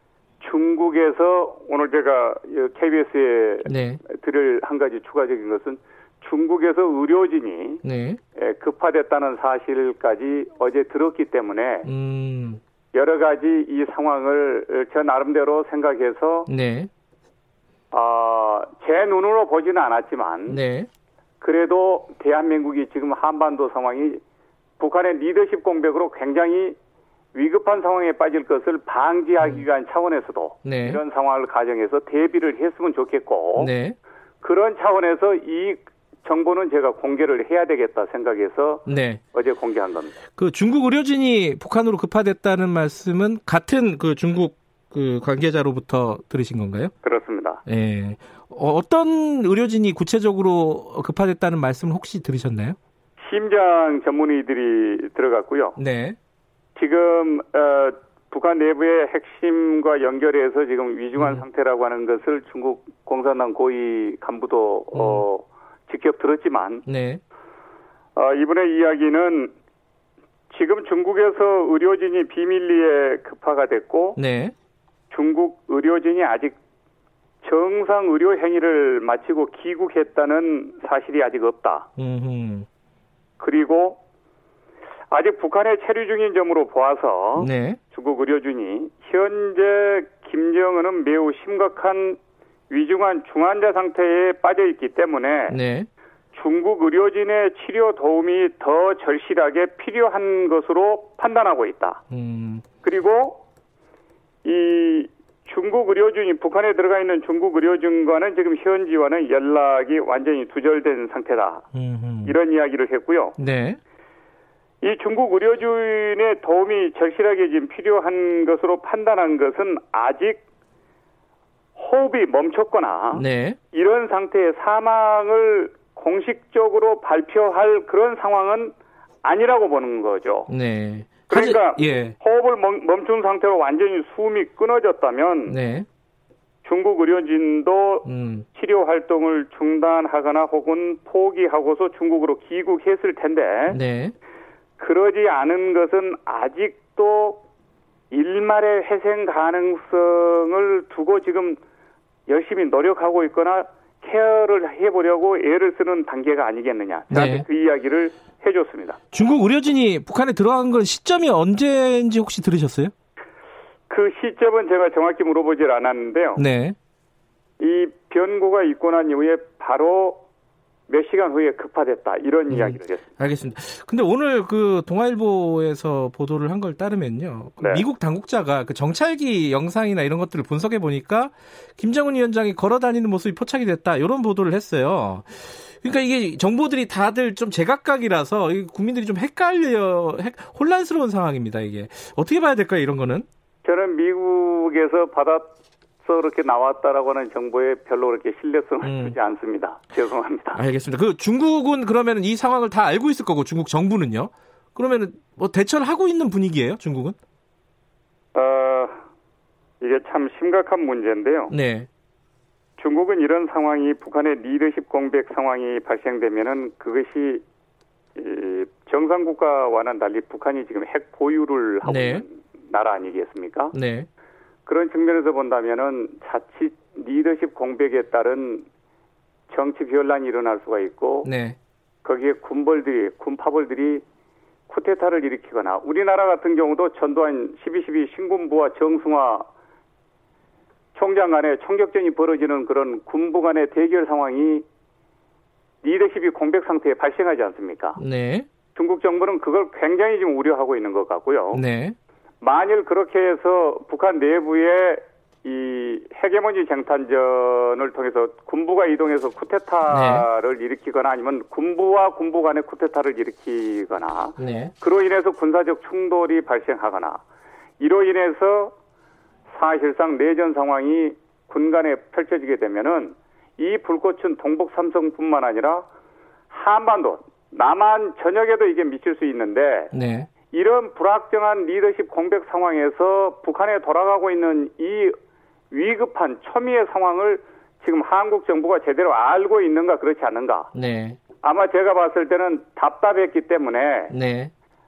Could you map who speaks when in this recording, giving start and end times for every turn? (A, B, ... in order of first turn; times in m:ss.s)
0:00.4-0:07.8 A
0:03.7-0:04.0 B
0:07.8-0:08.2 B
0:08.4-0:11.9 A
0:11.8-0:12.6 B
0:12.9-0:16.5 A
0:16.5-0:16.9 B
0:17.9-0:20.6 A
0:20.5-0:20.9 B
0:21.4-0:24.2 A
0:24.8-0:26.8 A
0:27.3-0:33.7 A
0:30.6-0:31.0 B
0:33.6-0:34.0 B
0:34.4-0:40.2 A
0:38.9-0:39.2 B
0:40.4-0:46.9 B
0:47.0-0:47.6 A
0:47.7-0:52.8 B
0:53.2-0:55.8 A
0:55.8-0:56.2 B
0:56.8-1:06.8 A
1:01.2-1:01.4 B
1:04.9-1:05.2 B
1:06.9-1:07.2 B
1:08.2-1:09.5 A
1:10.5-1:14.2 A
1:14.2-1:14.5 B
1:15.1-1:16.6 A
1:17.4-1:21.9 A
1:22.0-1:22.7 B
1:23.4-1:24.0 A
1:25.1-1:32.2 A
1:27.4-1:27.8 B
1:32.7-1:35.6 A
1:35.5-1:35.9 B
1:36.3-1:42.0 A
1:42.1-1:42.6 B
1:42.8-1:43.4 A
1:44.4-1:51.7 A
1:51.7-1:52.4 B
1:52.2-1:53.4 A
1:53.4-1:53.8 B
1:54.8-2:00.4 A
2:01.8-2:10.5 A
2:03.1-2:03.6 B
2:10.5-2:12.2 B
2:11.3-2:15.6 A
2:15.5-2:15.9 B
2:16.6-2:23.8 A
2:18.0-2:18.5 B
2:23.7-2:24.2 B
2:24.8-2:27.4 A
2:28.1-2:31.6 A
2:32.3-2:39.0 A
2:37.1-2:37.5 B
2:39.1-2:42.9 B
2:43.9-2:46.4 A
2:46.4-2:46.8 B
2:47.6-2:50.2 A
2:50.9-2:53.0 A
2:52.5-3:13.3 B
2:57.6-2:57.8 A
3:13.6-3:20.6 A
3:18.8-3:19.2 B
3:20.5-3:27.2 B
3:28.4-3:29.0 A
3:29.8-3:31.5 A
3:31.5-3:31.9 B
3:32.8-3:37.4 A
3:38.2-3:43.7 A
3:41.8-3:42.2 B
3:43.7-3:44.1 B
3:44.7-3:48.7 A
3:49.5-3:51.3 A
3:51.2-3:51.6 B
3:52.0-3:54.0 A
3:54.7-3:59.4 A
4:00.9-4:04.6 A
4:05.8-4:08.0 A
4:08.0-4:08.5 B
4:08.8-4:11.6 A
4:11.5-4:12.0 B
4:12.4-4:27.2 A
4:19.9-4:20.3 B
4:24.4-4:24.7 B
4:27.8-4:28.7 A
4:29.5-4:35.9 A
4:36.5-4:39.9 A
4:39.9-4:40.3 B
4:40.5-4:45.1 A
4:45.7-4:50.7 A
4:50.7-4:51.2 B
4:51.4-4:54.1 A
4:54.1-4:54.5 B